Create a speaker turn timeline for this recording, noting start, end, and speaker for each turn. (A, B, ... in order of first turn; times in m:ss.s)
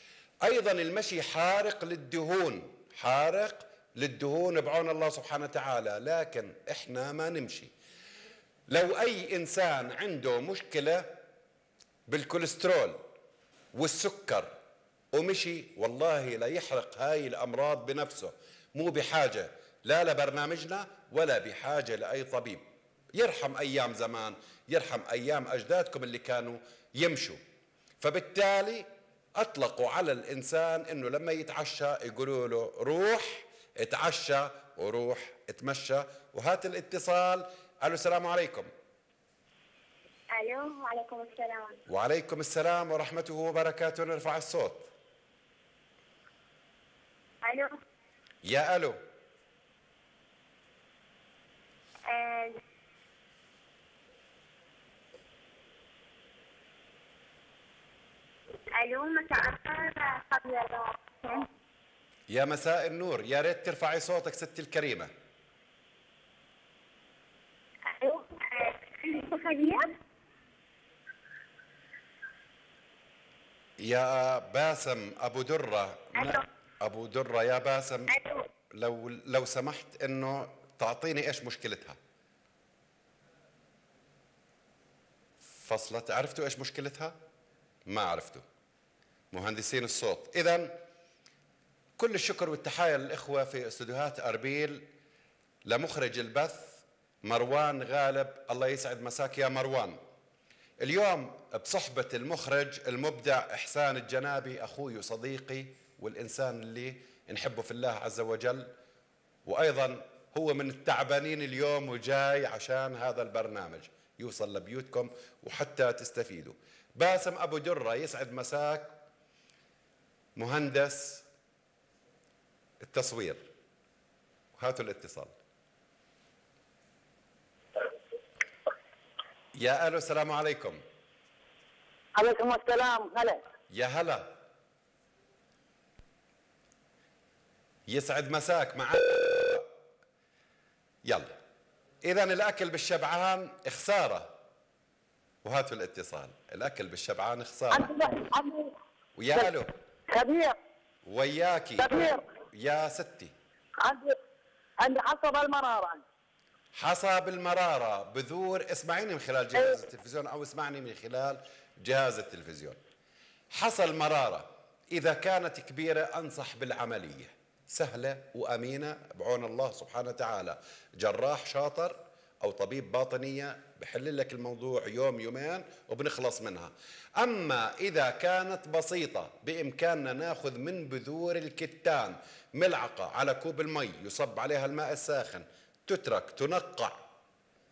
0:00.4-0:07.7 A
0:08.7-0:11.1 A
0:12.1-0:13.0 A
0:13.7-0:14.5 A
0:15.1-0:22.6 A
0:23.2-0:27.4 A
0:28.0-0:28.8 A
0:29.4-0:38.7 A
0:40.7-0:41.7 B
0:41.9-0:44.9 A
0:48.4-0:49.0 A
0:58.9-0:59.2 B
1:02.3-1:05.1 A
1:09.1-1:09.8 B
1:13.8-1:18.1 A
1:18.7-1:22.0 A
1:25.6-1:27.1 A
1:27.9-1:28.4 A
1:29.3-1:30.8 A
1:32.0-1:34.8 A
1:35.7-1:40.0 A
1:40.8-1:48.7 A
1:49.4-1:58.9 A
2:00.4-2:01.2 A
2:02.8-2:03.4 A
2:04.6-2:05.3 A
2:09.6-2:10.8 A
2:12.2-2:13.4 C
2:13.7-2:14.3 A
2:17.9-2:19.6 A
2:21.1-2:21.3 A
2:22.0-2:24.3 A
2:25.4-2:27.9 A
2:27.7-2:28.7 C
2:29.2-2:29.7 A
2:30.1-2:30.6 C
2:31.1-2:32.0 A
2:31.8-2:32.2 C
2:32.5-2:33.3 A
2:33.8-2:34.1 C
2:34.8-2:36.0 C
2:36.8-2:42.8 A
2:43.5-3:07.0 A